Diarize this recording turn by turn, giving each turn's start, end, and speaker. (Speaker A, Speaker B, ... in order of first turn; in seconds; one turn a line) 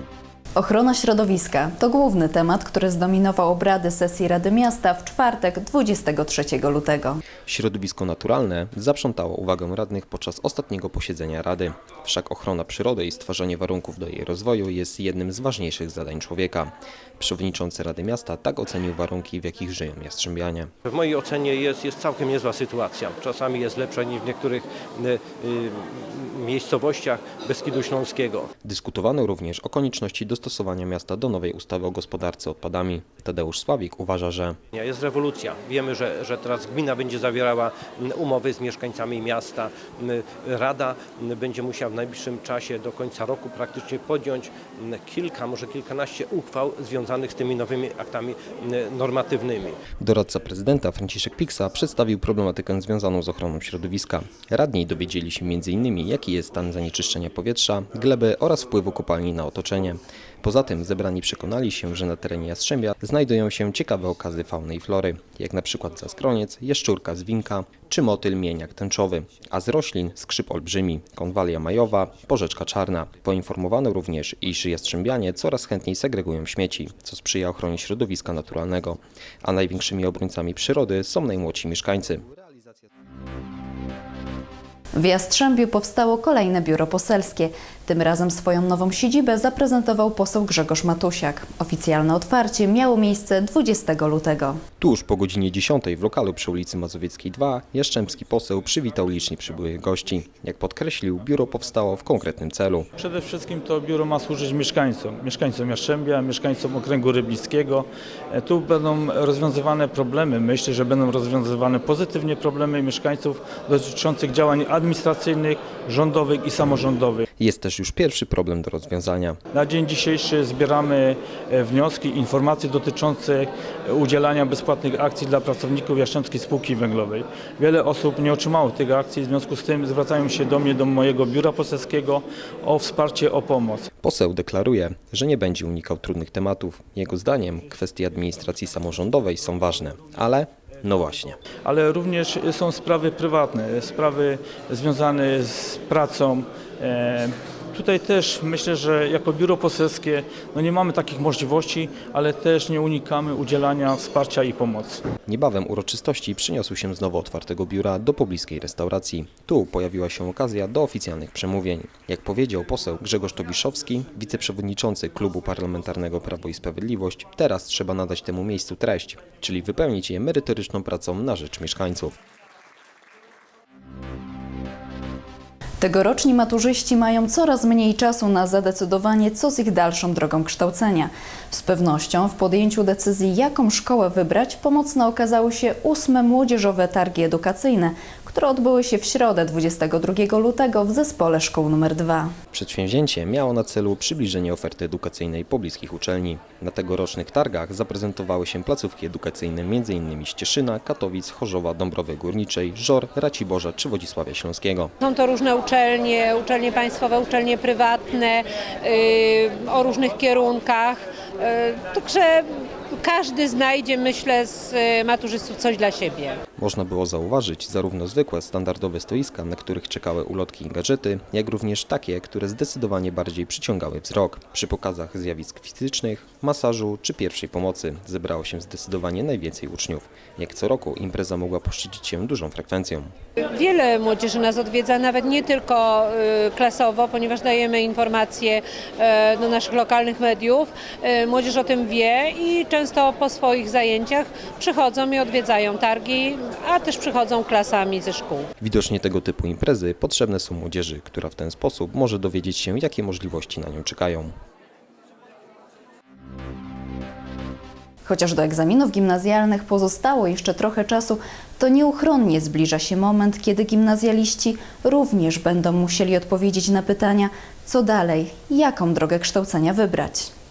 Speaker A: 0.6-7.2
Speaker B: 7.5-20.7
Speaker C: 20.9-28.5
Speaker B: 28.6-34.6
Speaker C: 34.7-49.8
Speaker B: 50.0-82.2
Speaker A: 85.0-94.6
Speaker B: 94.8-102.9
Speaker D: 103.0-117.2
Speaker B: 117.4-119.4
Speaker D: 119.5-133.9
Speaker B: 134.0-141.4
Speaker D: 141.6-155.0
Speaker B: 155.3-172.1
Speaker A: 175.8-192.3
Speaker B: 192.5-204.9
Speaker E: 205.0-216.4
Speaker B: 216.6-233.1
Speaker E: 233.5-248.5
Speaker B: 248.6-254.3
Speaker A: 258.1-270.3